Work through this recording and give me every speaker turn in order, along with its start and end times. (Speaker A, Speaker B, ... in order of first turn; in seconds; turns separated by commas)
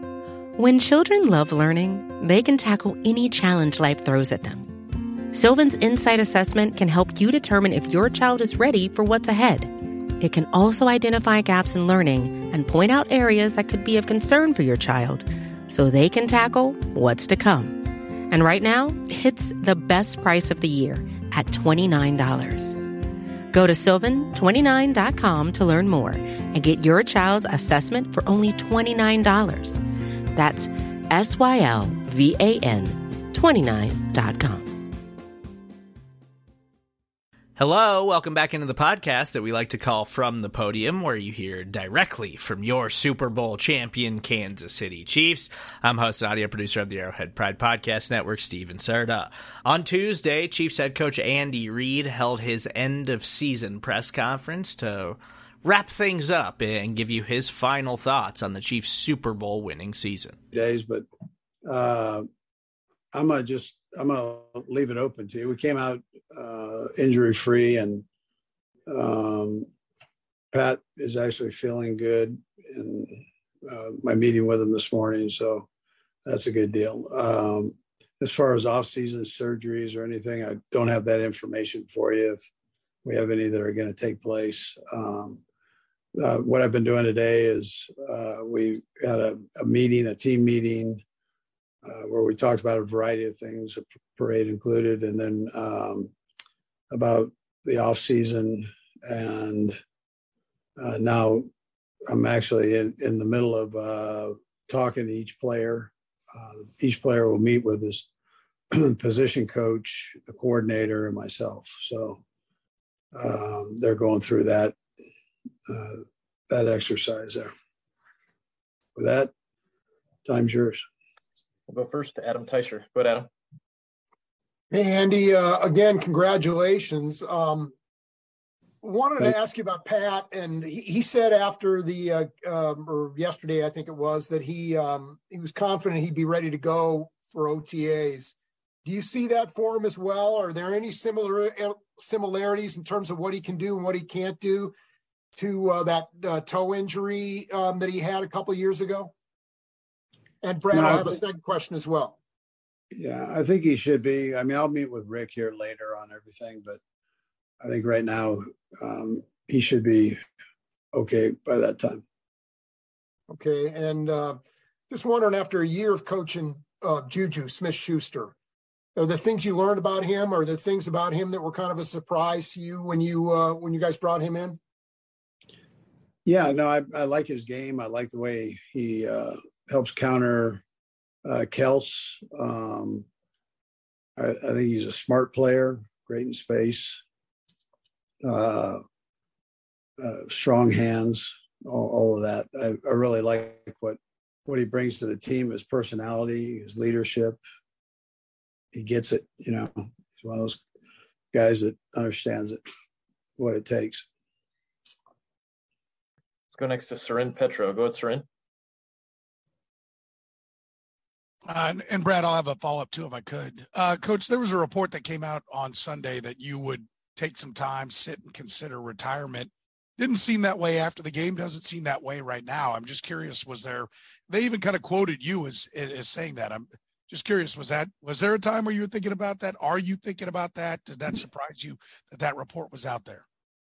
Speaker A: 0.6-4.7, Speaker A: 5.3-22.8, Speaker A: 23.5-29.8, Speaker A: 30.4-34.7, Speaker B: 37.6-60.4, Speaker C: 60.5-61.0, Speaker C: 61.6-62.3, Speaker C: 63.1-68.1, Speaker C: 68.9-69.7, Speaker C: 70.5-75.7, Speaker C: 76.3-82.5, Speaker C: 83.0-85.4, Speaker C: 86.2-91.0, Speaker C: 91.8-96.1, Speaker C: 96.9-99.8, Speaker C: 100.8-101.5, Speaker C: 102.1-108.1, Speaker C: 108.7-112.2, Speaker C: 113.1-114.8, Speaker C: 115.7-117.5, Speaker C: 119.0-119.3, Speaker C: 120.2-120.8, Speaker D: 121.9-123.1, Speaker E: 124.7-127.7, Speaker E: 128.8-144.7, Speaker E: 145.3-149.1, Speaker E: 150.4-152.2, Speaker C: 150.7-151.2, Speaker C: 152.9-156.8, Speaker C: 157.6-160.2, Speaker C: 160.9-162.0, Speaker E: 163.3-168.3, Speaker E: 169.0-174.6, Speaker C: 176.2-180.6, Speaker C: 181.2-183.1, Speaker C: 184.2-187.0, Speaker C: 188.2-188.8, Speaker C: 190.0-197.4, Speaker C: 198.7-200.6, Speaker C: 201.3-202.6, Speaker C: 203.4-204.1, Speaker D: 206.5-208.3, Speaker F: 211.5-233.2